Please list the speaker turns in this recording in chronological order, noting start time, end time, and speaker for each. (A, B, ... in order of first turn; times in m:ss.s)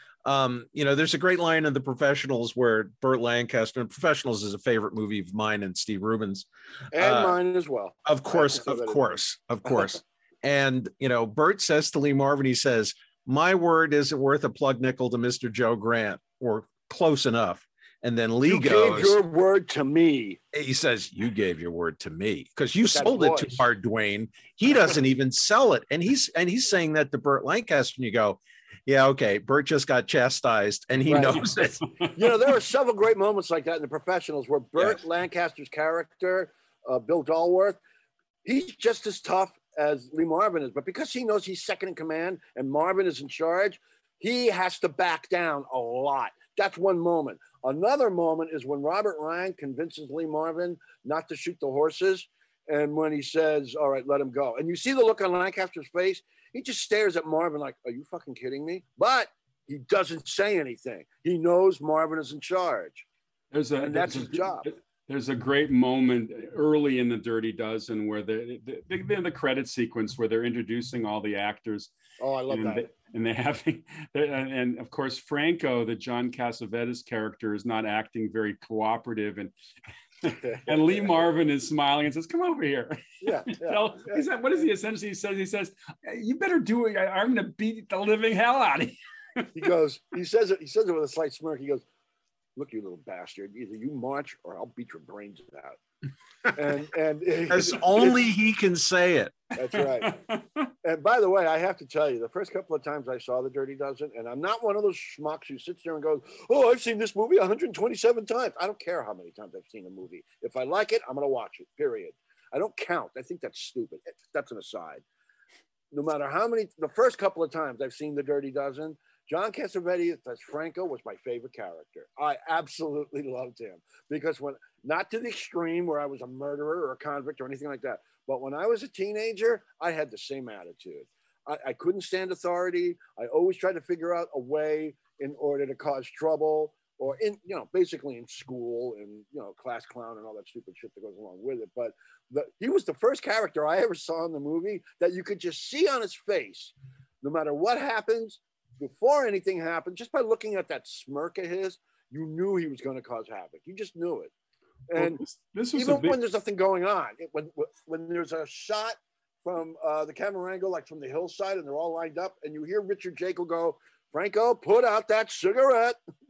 0:00.2-0:07.4 A
0:06.9-0:09.2 B
0:08.1-0:19.2 A
0:18.5-0:20.4 B
0:20.5-0:31.8 A
0:22.8-0:23.6 B
0:31.1-0:31.4 B
0:32.1-0:37.8 B
0:34.8-0:35.0 A
0:38.4-1:03.0 B
1:03.5-1:11.9 C
1:03.8-1:04.7 B
1:12.2-1:12.9 B
1:12.5-1:19.5 C
1:20.2-1:29.5 C
1:20.4-1:21.1 B
1:23.2-1:24.2 B
1:29.6-1:31.8 B
1:32.6-1:35.8 B
1:36.5-1:38.2 B
1:37.5-1:39.4 A
1:39.6-1:40.2 B
1:40.0-1:40.7 C
1:40.8-1:55.0 B
1:55.9-2:34.3 B
2:34.9-2:35.2 B
2:35.0-2:36.2 C
2:35.7-2:46.0 B